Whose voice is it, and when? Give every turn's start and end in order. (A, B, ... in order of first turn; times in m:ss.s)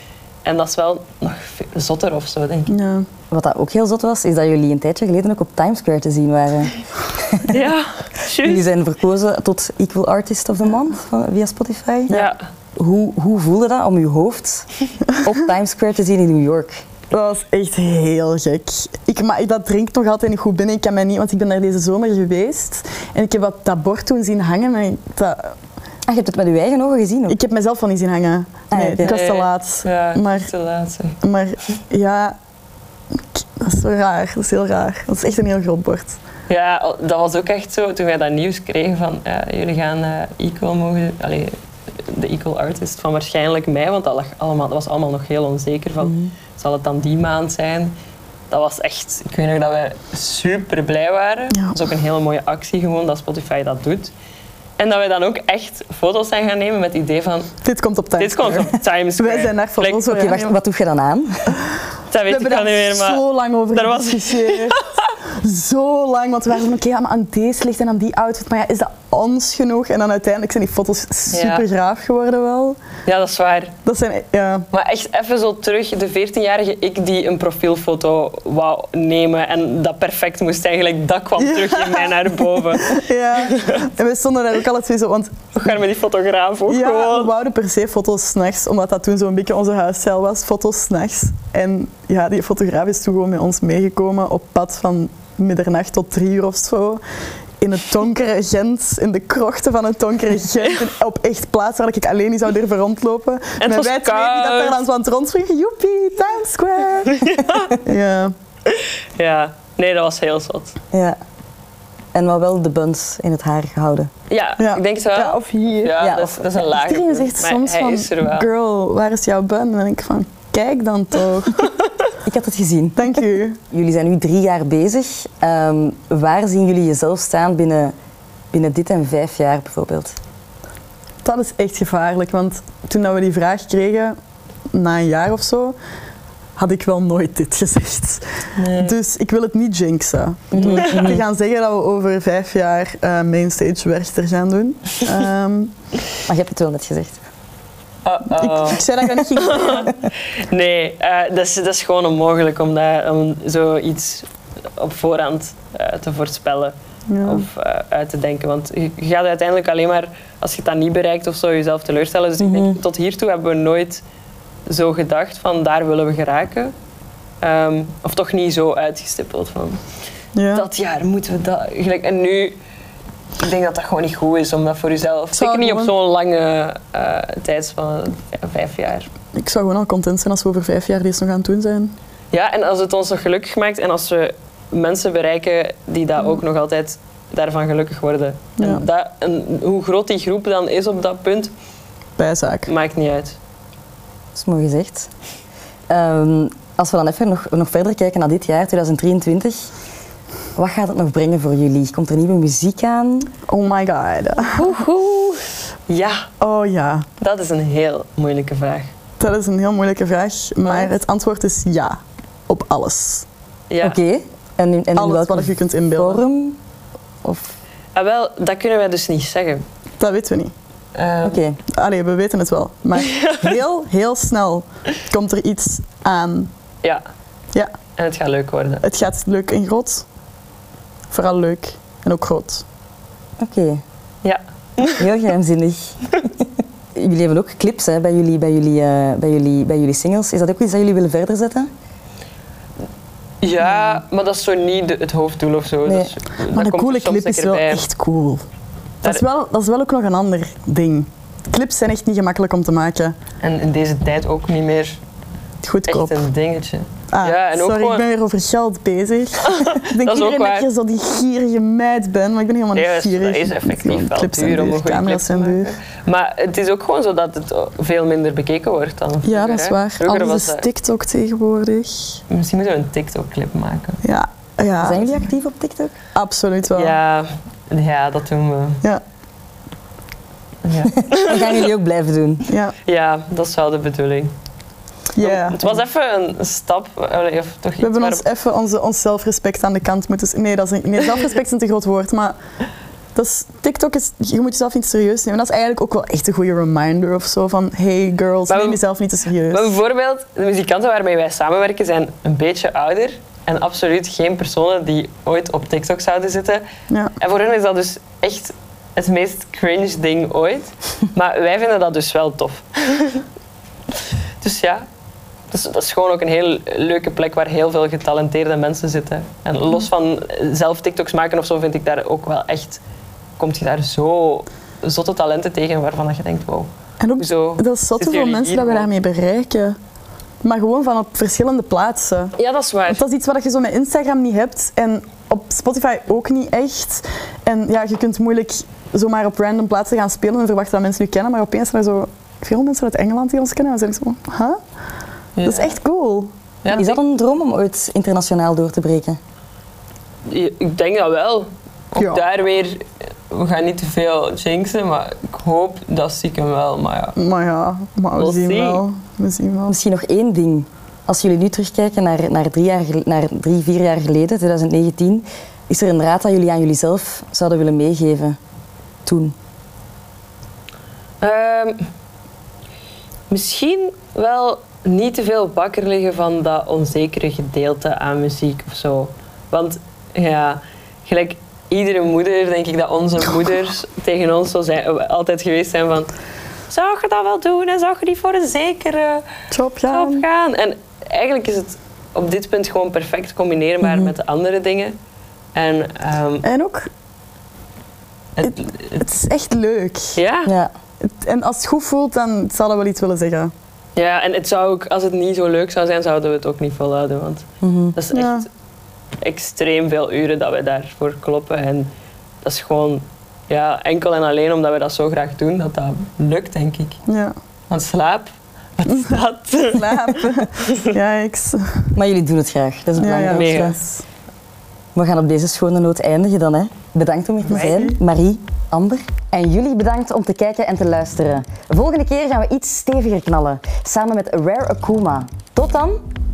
0:00.4-0:02.7 A
0:02.7-0:03.1 B
0:03.3-0:07.6 C
0:07.4-0:08.6 A
0:08.4-0:12.2 C
0:12.1-0:12.5 A
0:12.8-0:14.7 C
0:15.2-0:16.8 C
0:17.1-0:25.6 B
0:26.1-0:27.4 C
0:27.3-0:30.5 B
0:28.7-0:29.1 C
0:29.0-0:31.2 A
0:31.2-0:32.4 B
0:33.4-0:36.2 B
0:36.5-0:47.9 A
0:46.0-0:46.3 C
0:48.5-0:54.1 A
0:54.8-0:57.5 A
0:57.6-1:00.6 B
0:58.2-1:00.1 A
1:00.1-1:01.6 C
1:02.1-1:05.1 A
1:02.3-1:12.8 B
1:11.3-1:11.7 A
1:13.0-1:13.7 A
1:13.8-1:14.7 B
1:14.7-1:23.9 A
1:21.4-1:25.7 B
1:25.5-1:27.3 A
1:26.7-1:37.0 B
1:37.6-1:48.3 B
1:43.6-1:44.8 A
1:47.1-1:47.8 A
1:48.7-1:50.8 A
1:50.9-1:51.2 C
1:52.1-1:54.1 C
1:54.3-1:58.5 A
1:54.6-2:01.7 B
1:56.0-1:56.3 C
2:02.2-2:07.9 C
2:03.0-2:03.6 B
2:08.5-2:10.2 C
2:11.2-2:14.2 B
2:14.7-2:15.8 B
2:16.6-2:25.7 B
2:18.6-2:19.0 A
2:20.5-2:21.2 C
2:20.6-2:21.2 A
2:26.3-2:27.2 C
2:28.0-2:44.0 A
2:28.4-2:30.0 B
2:37.1-2:37.4 B
2:42.4-2:42.8 C
2:44.7-2:46.7 A
2:47.4-2:49.8 A
2:50.4-2:50.7 B
2:50.5-2:52.6 A
2:53.4-2:59.1 A
2:55.3-2:55.9 B
2:59.4-3:01.9 B
3:02.3-3:11.5 A
3:08.6-3:08.8 B
3:12.2-3:12.7 B
3:12.7-3:13.4 A
3:14.4-3:15.1 C
3:15.9-3:19.7 C
3:20.6-3:23.3 C
3:23.5-3:24.8 B
3:24.5-3:26.3 A
3:26.4-3:27.1 B
3:27.2-3:28.9 A
3:29.2-3:33.3 B
3:30.6-3:30.9 A
3:33.7-3:34.0 A
3:33.8-3:36.6 C
3:35.0-3:36.2 B
3:37.2-3:37.5 C
3:38.0-3:39.6 A
3:40.0-3:40.5 B
3:41.0-3:41.4 A
3:41.2-3:41.6 C
3:41.7-3:46.5 B
3:43.0-3:43.5 A
3:48.0-3:48.8 A
3:48.8-3:50.0 B
3:51.1-3:52.6 B
3:53.4-3:53.8 C
3:54.2-3:55.1 A
3:55.0-3:56.0 C
3:57.0-4:01.7 C
4:03.4-4:07.8 A
4:06.5-4:08.4 B
4:09.0-4:13.2 B
4:13.4-4:15.0 A
4:15.6-4:16.2 B
4:15.9-4:18.0 A
4:17.1-4:25.7 B
4:19.4-4:20.7 A
4:22.7-4:30.6 A
4:29.2-4:32.2 B
4:32.3-4:34.0 A
4:34.0-4:35.2 B
4:34.8-4:36.0 C
4:36.2-4:37.0 B
4:36.8-4:38.8 A
4:40.6-4:41.7 A
4:40.8-4:42.5 C
4:42.5-4:42.7 B
4:42.8-4:44.3 A
4:45.2-4:45.7 B
4:45.2-4:48.2 A
4:47.8-4:52.4 B
4:53.2-4:59.7 B
4:58.5-4:58.8 A
4:59.5-5:06.6 A
5:07.2-5:13.3 A
5:14.4-5:14.8 A
5:15.5-5:22.8 A
5:23.4-5:28.9 A
5:27.0-5:29.8 B
5:30.4-5:32.3 B
5:32.4-5:33.0 A
5:32.9-5:44.6 B
5:45.4-5:45.8 A
5:45.4-5:46.3 B
5:46.6-5:47.0 A
5:46.7-5:49.2 C
5:50.3-5:57.2 A
5:52.0-5:52.2 B
5:57.2-5:59.8 B
5:58.2-5:58.8 A
5:59.7-6:08.4 C
6:09.1-6:09.4 C
6:11.2-6:11.9 A
6:13.3-6:26.1 A
6:26.7-6:29.2 A
6:29.5-6:30.2 B
6:29.9-6:35.0 A
6:35.6-6:36.5 A
6:36.4-6:36.9 B
6:38.4-6:39.0 A
6:38.4-6:40.2 B
6:40.2-6:40.5 A
6:40.5-6:40.7 C
6:41.0-6:43.5 B
6:44.0-6:48.5 A
6:47.6-6:48.0 C
6:48.1-6:48.5 B
6:49.2-6:51.9 A
6:52.4-6:57.0 A
6:57.1-6:57.3 B
6:57.7-7:00.9 A
6:58.9-7:01.9 B
7:02.0-7:03.8 C
7:03.0-7:04.0 B
7:03.0-7:03.8 A
7:05.0-7:16.0 C
7:07.5-7:08.0 B